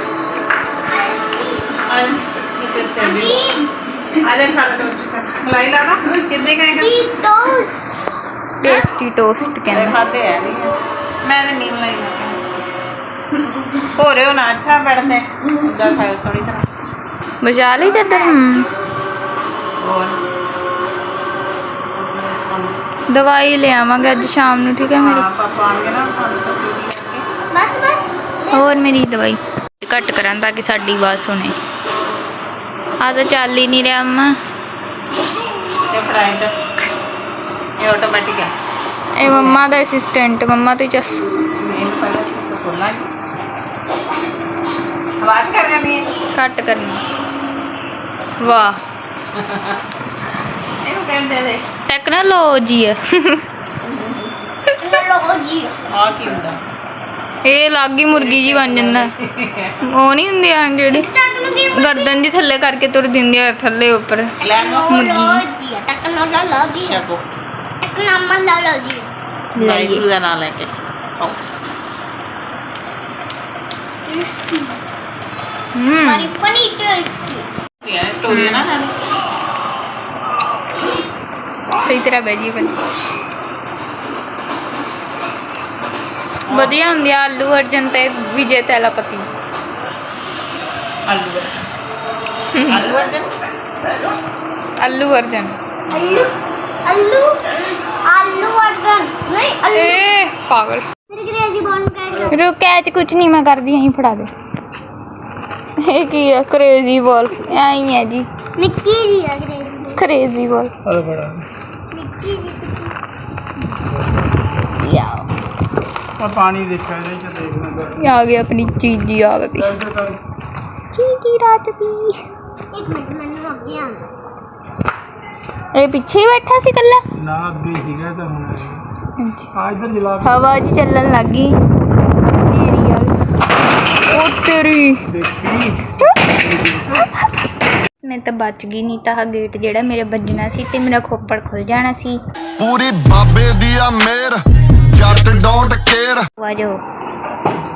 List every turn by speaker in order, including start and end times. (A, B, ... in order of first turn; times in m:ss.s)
0:00.8-0:01.7 A
0:01.8-0:03.5 B
0:03.0-0:03.6 A
0:04.1-0:07.1 B
0:06.7-0:07.8 A
0:08.6-0:10.0 C
0:09.7-0:12.4 B
0:13.4-0:16.6 B
0:17.4-0:18.7 C
0:18.0-0:18.4 A
0:19.8-0:20.2 B
0:21.9-0:22.8 B
0:23.1-0:25.3 C
0:25.0-0:27.2 B
0:27.5-0:28.8 A
0:28.5-0:31.6 C
0:33.0-0:34.3 C
0:35.9-0:36.5 B
0:37.8-0:38.5 B
0:39.2-0:41.3 C
0:39.2-0:39.6 B
0:41.6-0:43.1 B
0:45.2-0:46.1 B
0:46.3-0:47.0 C
0:48.4-0:48.8 C
0:49.3-0:49.8 B
0:50.8-0:51.6 B
0:51.9-0:53.4 C
0:53.8-0:54.4 B
0:54.8-0:55.8 A
0:55.9-0:56.6 B
0:57.4-0:59.1 C
0:58.1-0:59.7 B
0:59.8-1:01.1 C
1:00.9-1:02.2 A
1:01.7-1:04.3 C
1:04.4-1:04.9 B
1:04.4-1:07.0 A
1:04.9-1:05.4 C
1:06.8-1:07.2 B
1:07.8-1:09.1 A
1:09.6-1:10.0 C
1:09.6-1:11.4 B
1:14.0-1:14.8 A
1:15.7-1:16.3 C
1:16.0-1:17.5 A
1:17.8-1:18.9 B
1:18.3-1:18.6 C
1:21.8-1:22.8 C
1:26.5-1:26.7 B
1:26.5-1:29.2 C
1:31.0-1:31.7 B
1:32.5-1:32.9 C
1:32.7-1:33.3 B
1:34.8-1:35.5 C
1:35.9-1:36.3 B
1:35.9-1:36.3 A
1:36.8-1:40.0 A
1:39.7-1:40.8 C
1:41.1-1:42.4 A
1:42.3-1:44.3 C
1:45.8-1:48.3 C
1:48.6-1:50.0 A
1:49.9-1:50.7 C
1:50.8-1:51.4 D
1:51.9-1:52.9 A
1:54.7-1:55.3 C
1:56.2-1:58.1 D
1:58.0-1:59.8 C
1:59.5-2:00.2 D
2:00.9-2:02.2 C
2:02.7-2:04.1 A
2:05.7-2:07.0 C
2:07.2-2:08.8 D
2:09.2-2:09.5 C
2:09.5-2:10.4 D
2:10.2-2:11.6 C
2:12.4-2:13.1 C
2:14.0-2:15.1 C
2:15.1-2:17.0 D
2:18.0-2:22.2 C
2:22.6-2:26.3 E
2:26.4-2:26.8 C